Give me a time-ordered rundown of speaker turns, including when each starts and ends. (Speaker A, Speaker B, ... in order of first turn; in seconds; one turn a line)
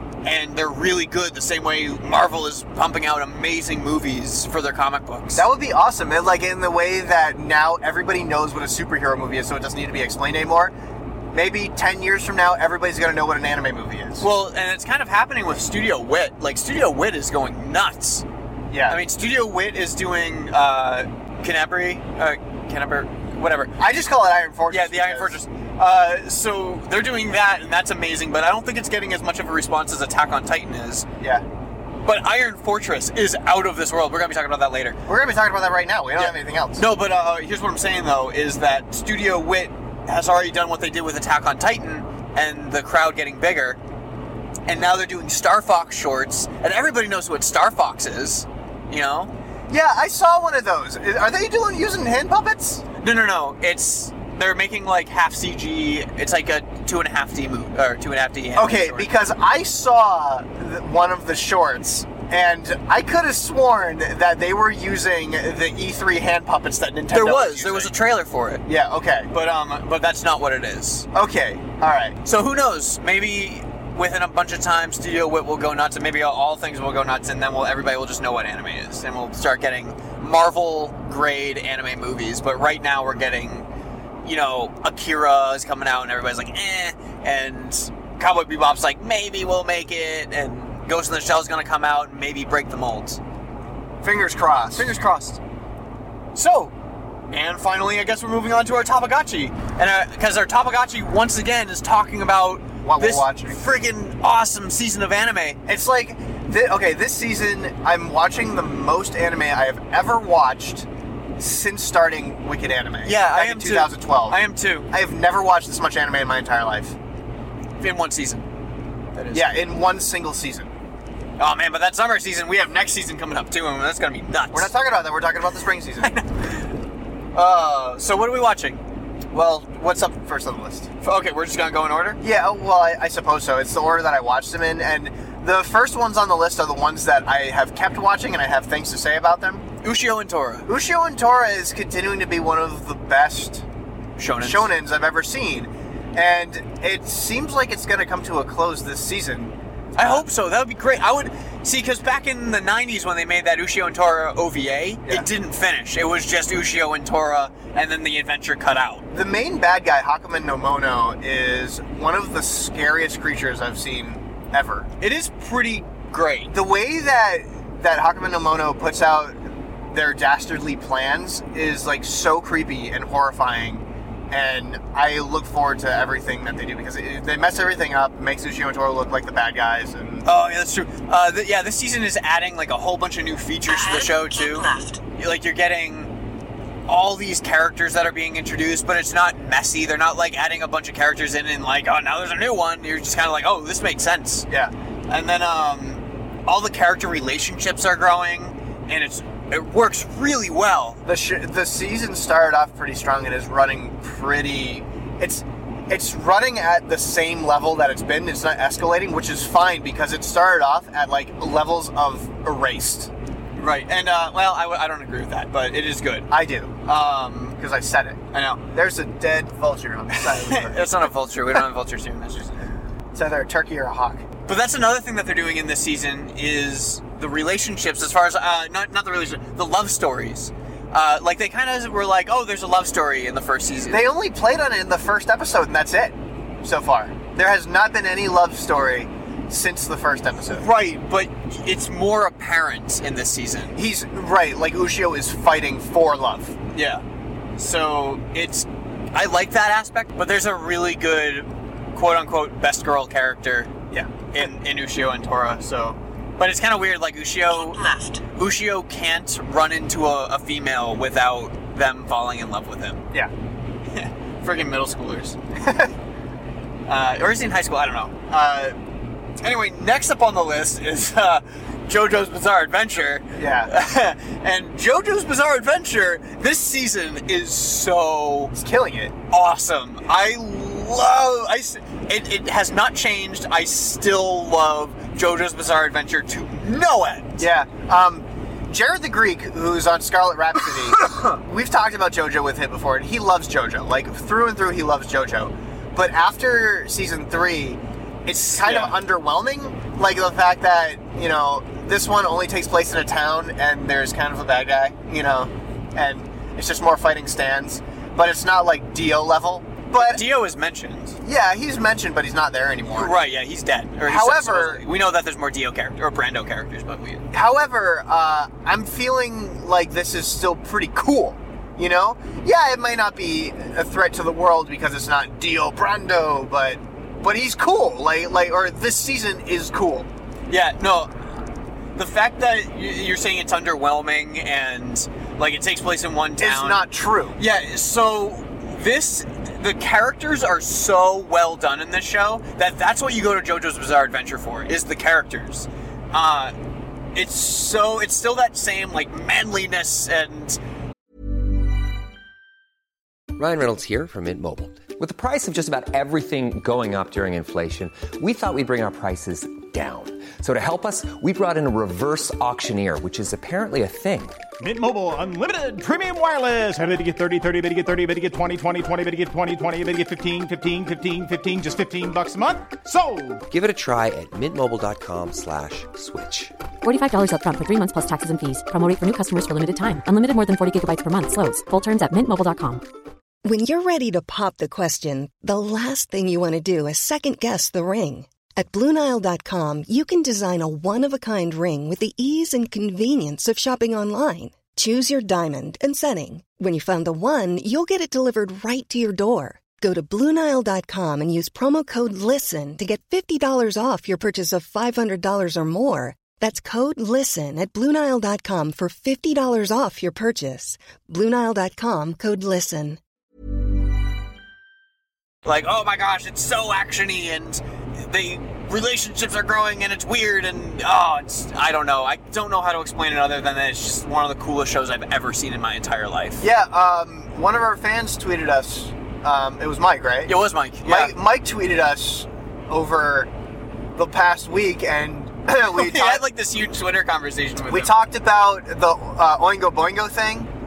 Speaker A: 0.2-5.5
Speaker B: 5.4-10.7
Speaker B: 11.3-14.3
Speaker A: 14.2-18.2
Speaker B: 18.7-19.0
Speaker A: 18.9-23.8
Speaker B: 23.8-25.3
Speaker A: 24.7-31.1
Speaker A: 32.0-35.0
Speaker B: 35.1-36.8
Speaker A: 36.2-43.8
Speaker A: 44.7-49.3
Speaker B: 49.7-52.9
Speaker A: 53.0-59.1
Speaker B: 58.6-67.9
Speaker A: 67.1-68.6
Speaker B: 68.7-69.3
Speaker A: 69.3-71.1
Speaker B: 71.1-72.2
Speaker A: 72.2-83.7
Speaker A: 84.2-93.2
Speaker B: 94.0-94.8
Speaker A: 94.8-95.4
Speaker A: 96.3-96.7
Speaker A: 97.3-105.6
Speaker B: 102.8-103.6
Speaker B: 105.7-110.9
Speaker B: 111.4-117.0
Speaker A: 113.0-114.9
Speaker A: 117.8-118.5
Speaker A: 119.2-119.6
Speaker B: 119.3-120.7
Speaker A: 121.4-124.7
Speaker B: 124.5-126.1
Speaker A: 126.0-126.7
Speaker A: 127.3-128.8
Speaker B: 129.3-130.9
Speaker A: 131.0-132.2
Speaker B: 132.2-139.7
Speaker A: 139.8-140.7
Speaker B: 140.7-143.7
Speaker A: 144.2-144.7
Speaker B: 144.4-150.2
Speaker A: 150.0-159.1
Speaker B: 159.1-164.9
Speaker A: 165.0-166.5
Speaker B: 166.5-169.4
Speaker B: 169.9-180.3
Speaker A: 180.2-186.1
Speaker C: 183.7-185.0
Speaker A: 186.9-194.5
Speaker A: 195.1-201.0
Speaker B: 201.1-213.1
Speaker A: 213.6-216.3
Speaker B: 216.3-216.8
Speaker A: 216.9-217.6
Speaker B: 217.6-221.1
Speaker A: 218.3-218.7
Speaker A: 220.2-222.7
Speaker B: 223.1-224.3
Speaker A: 224.5-234.1
Speaker B: 233.9-240.7
Speaker A: 240.5-243.8
Speaker B: 243.8-246.6
Speaker A: 246.7-247.0
Speaker A: 247.6-253.7
Speaker B: 253.9-254.2
Speaker A: 254.3-257.8
Speaker C: 257.5-258.2
Speaker A: 258.4-263.1
Speaker A: 263.9-265.4
Speaker A: 266.9-268.8
Speaker A: 269.4-278.5
Speaker B: 273.4-273.7
Speaker B: 278.6-279.1
Speaker A: 279.3-287.5
Speaker B: 287.4-310.2
Speaker A: 298.5-298.9
Speaker A: 309.9-311.2
Speaker B: 311.2-313.1
Speaker A: 312.9-317.3
Speaker B: 314.1-314.8
Speaker B: 317.3-330.1
Speaker A: 330.5-331.1
Speaker A: 332.0-336.8
Speaker B: 336.4-337.4
Speaker A: 337.4-346.6
Speaker A: 347.1-350.6
Speaker D: 353.4-364.4
Speaker E: 364.6-373.4
Speaker D: 373.5-376.6
Speaker F: 376.8-382.8
Speaker G: 383.4-413.0
Speaker A: 415.4-426.4
Speaker B: 426.4-430.3
Speaker A: 430.3-431.1
Speaker B: 430.9-433.3
Speaker B: 433.9-436.2
Speaker A: 435.6-437.9
Speaker B: 437.7-440.5